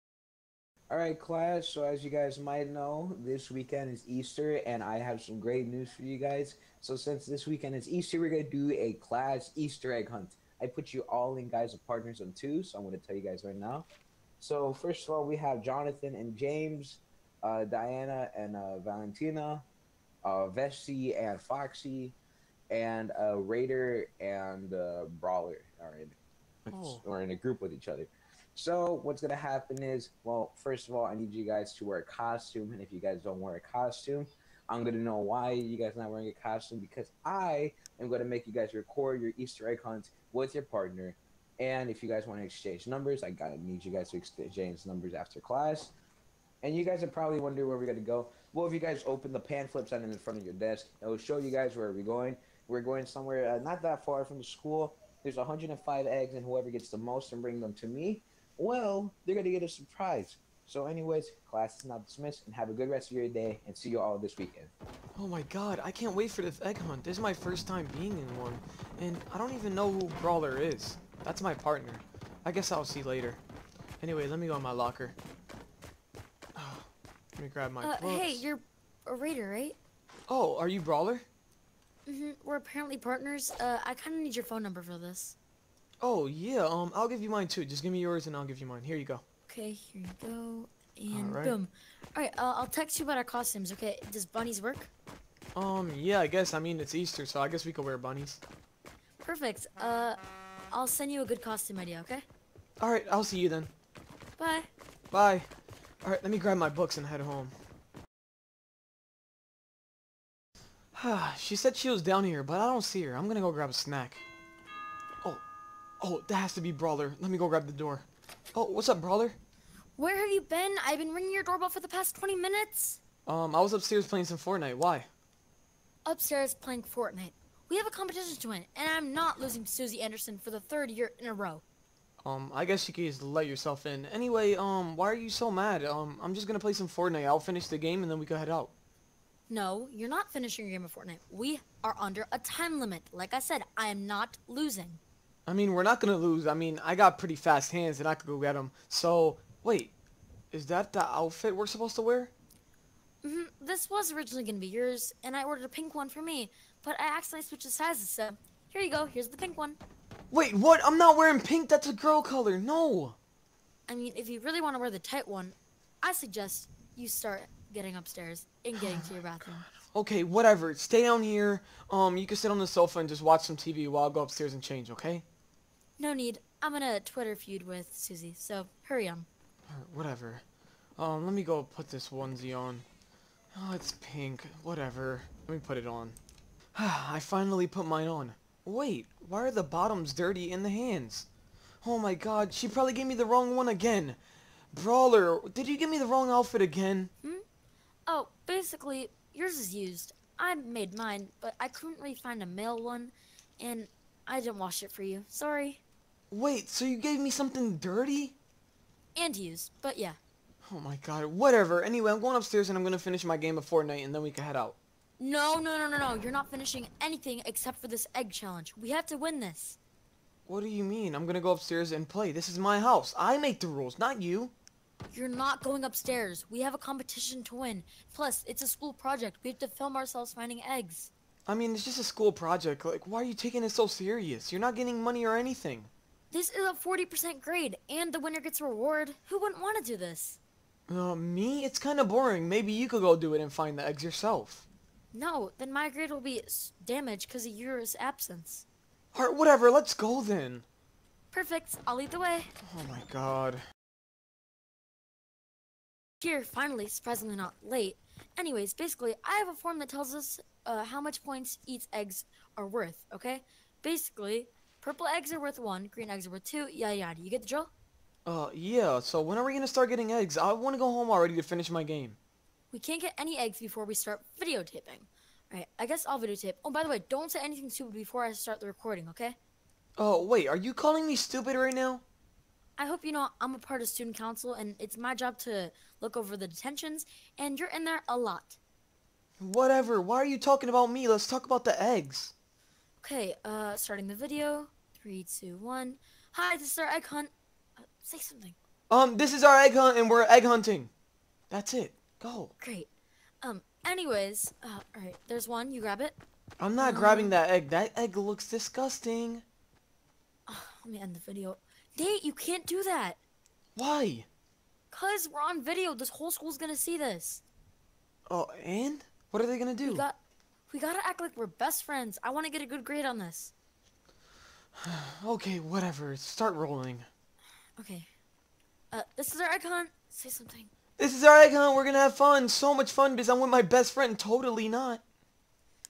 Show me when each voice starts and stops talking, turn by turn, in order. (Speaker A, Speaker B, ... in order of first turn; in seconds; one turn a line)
Speaker A: 0.9-13.9
Speaker A: 14.4-19.6
Speaker A: 20.2-22.2
Speaker A: 22.7-26.2
Speaker A: 26.7-45.9
Speaker B: 26.7-27.0
Speaker A: 46.6-64.7
Speaker B: 65.2-73.4
Speaker B: 74.0-75.2
Speaker B: 76.6-78.5
Speaker C: 77.8-79.8
Speaker B: 80.3-81.3
Speaker C: 82.1-85.4
Speaker B: 86.0-89.2
Speaker C: 89.5-94.9
Speaker B: 91.1-91.5
Speaker B: 95.5-98.4
Speaker C: 99.2-100.2
Speaker C: 100.7-102.2
Speaker B: 102.8-103.7
Speaker C: 104.4-104.7
Speaker B: 105.1-105.5
Speaker B: 106.0-107.5
Speaker B: 110.9-114.2
Speaker B: 116.0-119.4
Speaker C: 120.0-123.0
Speaker B: 123.3-125.1
Speaker C: 126.1-131.6
Speaker B: 132.2-138.7
Speaker C: 139.5-145.0
Speaker B: 145.5-149.9
Speaker B: 150.5-152.3
Speaker C: 153.2-159.8
Speaker B: 160.3-163.2
Speaker C: 163.9-169.6
Speaker B: 168.8-175.2
Speaker C: 176.0-179.3
Speaker B: 179.7-180.4
Speaker B: 181.0-182.8
Speaker B: 183.5-186.2
Speaker B: 186.8-191.3
Speaker B: 191.8-194.2
Speaker B: 194.7-197.1
Speaker C: 198.1-205.8
Speaker B: 206.3-208.4
Speaker C: 209.2-210.2
Speaker B: 210.7-214.8
Speaker C: 215.2-219.8
Speaker B: 220.5-224.5
Speaker C: 225.1-231.1
Speaker B: 231.5-235.9
Speaker C: 236.3-240.4
Speaker B: 240.9-244.7
Speaker C: 245.1-248.7
Speaker B: 249.1-250.7
Speaker C: 251.3-252.5
Speaker B: 252.6-253.6
Speaker C: 256.2-267.7
Speaker B: 268.3-272.2
Speaker C: 272.7-279.4
Speaker B: 280.0-282.0
Speaker C: 282.8-288.6
Speaker B: 289.4-292.3
Speaker C: 293.0-298.6
Speaker B: 298.9-300.9
Speaker B: 301.5-302.5
Speaker C: 302.6-302.9
Speaker C: 303.4-306.2
Speaker B: 306.6-309.4
Speaker C: 306.8-307.4
Speaker C: 310.5-313.2
Speaker B: 313.8-314.3
Speaker C: 314.9-317.4
Speaker B: 318.3-320.1
Speaker C: 319.9-320.2
Speaker C: 320.7-323.5
Speaker B: 324.8-327.1
Speaker C: 327.8-328.1
Speaker C: 328.9-330.7
Speaker B: 331.0-335.0